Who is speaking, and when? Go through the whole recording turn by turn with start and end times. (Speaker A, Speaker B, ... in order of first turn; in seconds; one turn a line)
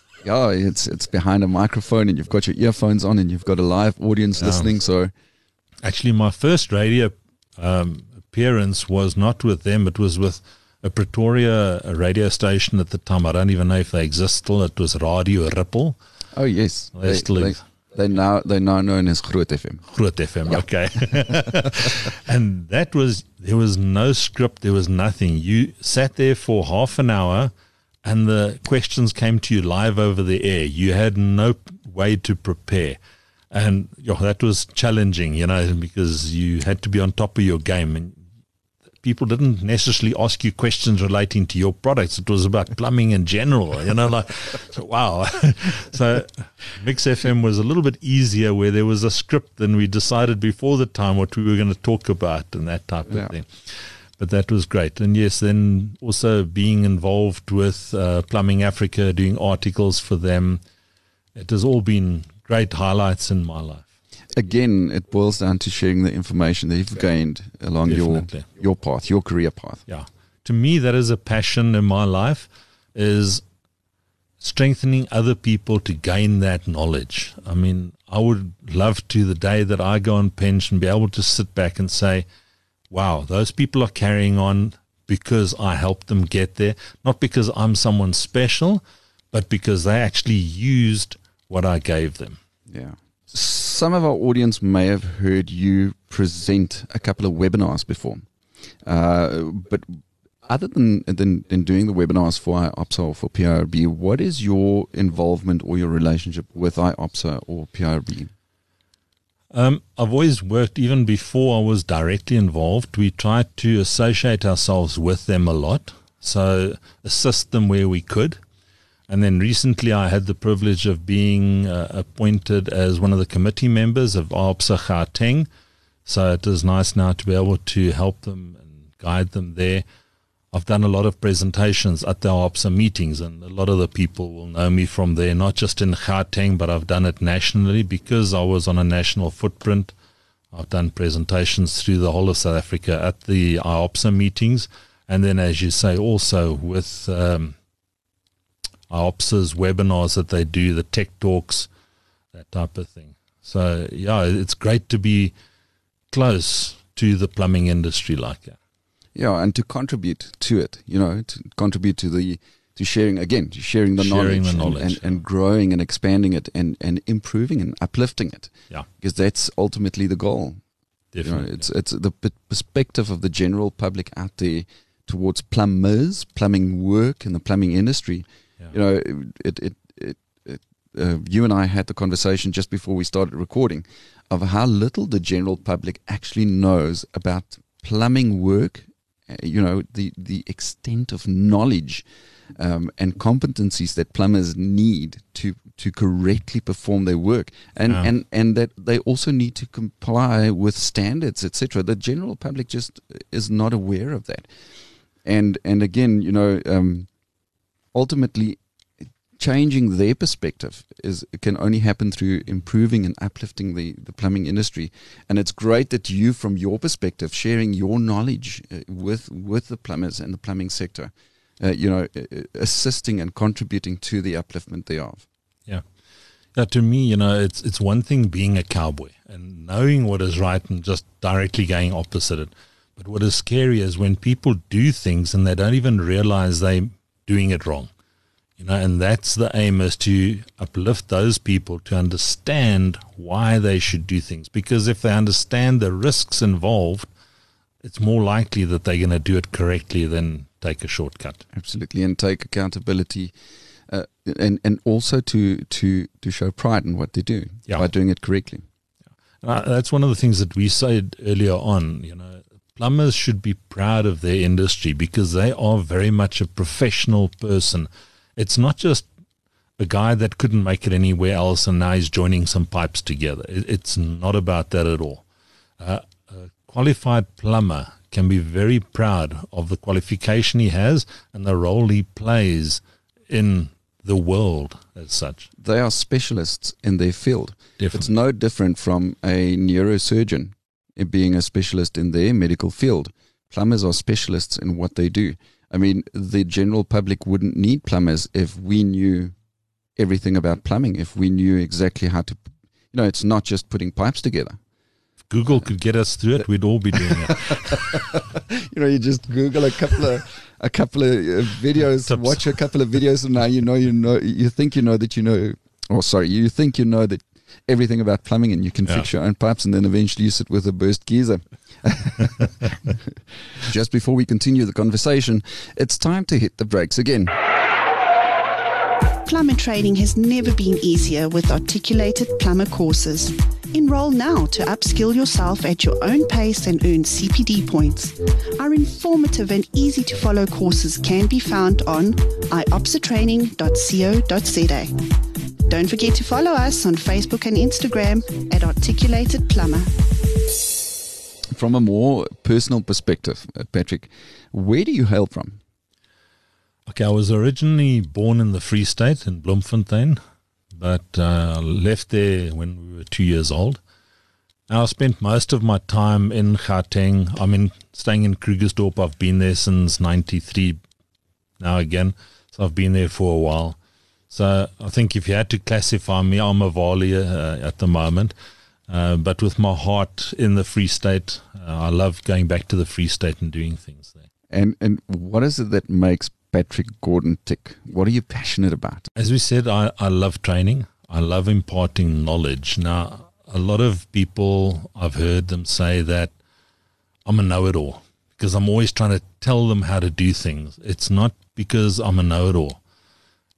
Speaker A: 0.2-5.1
Speaker B: 4.4-4.7
Speaker B: 5.8-16.0
Speaker A: 16.3-19.8
Speaker B: 16.9-17.6
Speaker B: 19.9-27.5
Speaker B: 28.0-33.0
Speaker B: 33.5-38.2
Speaker B: 39.0-60.6
Speaker B: 61.3-63.9
Speaker A: 64.3-69.8
Speaker B: 67.8-68.5
Speaker B: 69.9-73.4
Speaker B: 74.4-82.2
Speaker B: 82.9-92.4
Speaker A: 92.7-98.2
Speaker A: 98.8-99.8
Speaker A: 100.5-108.3
Speaker B: 109.5-118.4
Speaker B: 119.1-125.5
Speaker B: 126.0-129.8
Speaker B: 130.5-139.9
Speaker B: 140.5-147.5
Speaker B: 148.9-151.7
Speaker B: 152.3-155.3
Speaker B: 156.1-158.6
Speaker A: 159.1-170.6
Speaker B: 164.0-165.2
Speaker B: 171.1-171.6
Speaker A: 171.2-204.5
Speaker A: 205.2-207.1
Speaker A: 207.9-208.6
Speaker A: 209.4-225.2
Speaker B: 226.5-237.9
Speaker B: 238.6-247.1
Speaker B: 247.8-251.4
Speaker A: 251.5-253.3
Speaker A: 253.9-258.6
Speaker B: 259.4-269.1
Speaker B: 269.8-275.2
Speaker B: 275.8-285.5
Speaker A: 285.6-299.3
Speaker B: 287.8-288.1
Speaker A: 299.9-304.6
Speaker B: 305.3-307.8
Speaker A: 307.1-327.3
Speaker B: 312.1-312.4
Speaker C: 329.2-345.0
Speaker C: 345.7-349.9
Speaker A: 351.5-355.6
Speaker B: 356.9-360.2
Speaker B: 360.8-363.8
Speaker B: 364.7-370.8
Speaker B: 371.6-373.8
Speaker B: 374.3-378.3
Speaker B: 378.9-384.2
Speaker A: 384.5-389.1
Speaker B: 389.1-396.3
Speaker B: 397.2-402.8